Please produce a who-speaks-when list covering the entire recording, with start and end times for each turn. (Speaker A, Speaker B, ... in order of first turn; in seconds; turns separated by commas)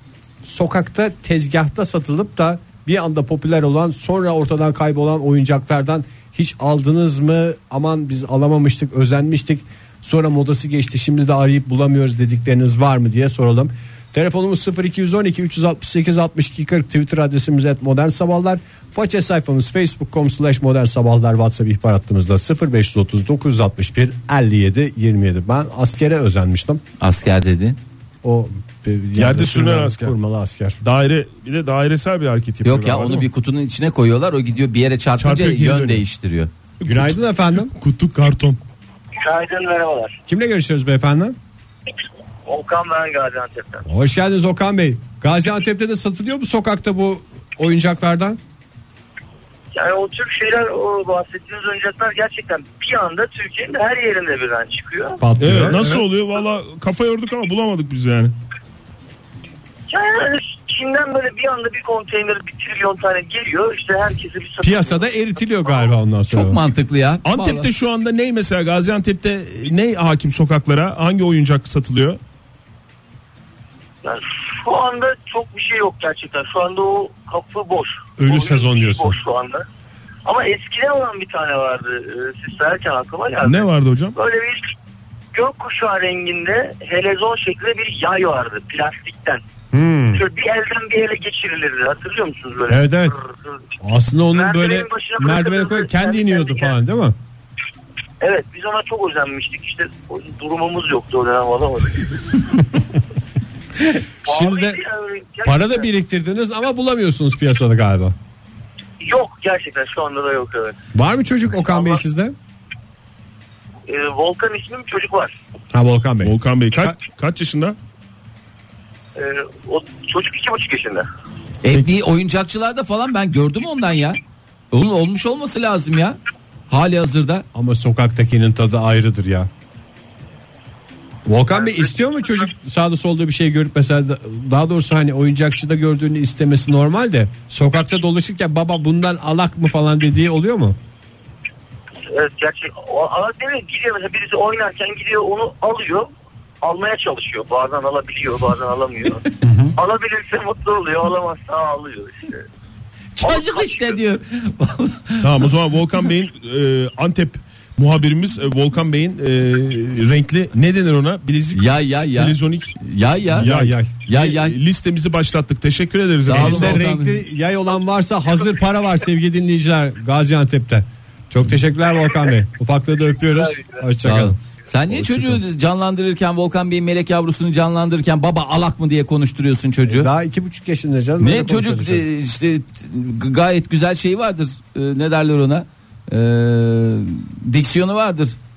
Speaker A: 0.4-26.8, Speaker B: 27.0-27.8, Speaker A: 28.2-30.8, Speaker C: 29.1-30.1, Speaker C: 30.8-33.3, Speaker B: 32.6-36.5, Speaker C: 35.2-36.0, Speaker C: 36.8-38.6, Speaker A: 36.8-37.7, Speaker D: 39.2-40.2, Speaker A: 40.3-41.4, Speaker D: 42.5-43.8, Speaker A: 43.8-48.4, Speaker D: 49.7-55.2, Speaker A: 55.2-56.0, Speaker C: 55.4-58.3, Speaker D: 59.9-65.2, Speaker A: 64.6-66.6, Speaker B: 66.3-67.7, Speaker C: 67.2-72.2, Speaker D: 74.0-79.6, Speaker A: 78.2-79.2, Speaker D: 80.2-84.7, Speaker C: 83.4-84.1, Speaker D: 85.3-89.4, Speaker A: 89.7-90.2, Speaker D: 90.1-93.6, Speaker A: 92.7-93.2, Speaker A: 93.8-97.2, Speaker D: 94.3-96.7, Speaker D: 98.2-102.1, Speaker A: 104.2-104.8, Speaker D: 104.2-105.9, Speaker A: 105.4-108.1, Speaker D: 109.0-110.8, Speaker A: 110.9-112.3, Speaker D: 111.7-112.0, Speaker D: 113.9-115.3, Speaker A: 115.7-116.9, Speaker C: 116.2-117.8, Speaker D: 119.2-121.0, Speaker B: 121.6-124.2, Speaker B: 124.7-126.2, Speaker B: 126.7-127.4, Speaker A: 127.5-129.5, Speaker A: 131.2-140.8, Speaker D: 142.1-146.1, Speaker D: 146.6-152.4, Speaker A: 149.4-149.7, Speaker B: 153.2-155.5, Speaker D: 153.2-154.0, Speaker C: 155.2-162.7, Speaker B: 161.5-163.5, Speaker A: 163.3-163.9, Speaker C: 163.3-166.8, Speaker B: 164.1-164.6, Speaker B: 166.2-167.2, Speaker A: 166.3-174.4, Speaker B: 174.0-180.1, Speaker A: 174.9-175.4, Speaker A: 179.8-182.1, Speaker B: 181.2-188.4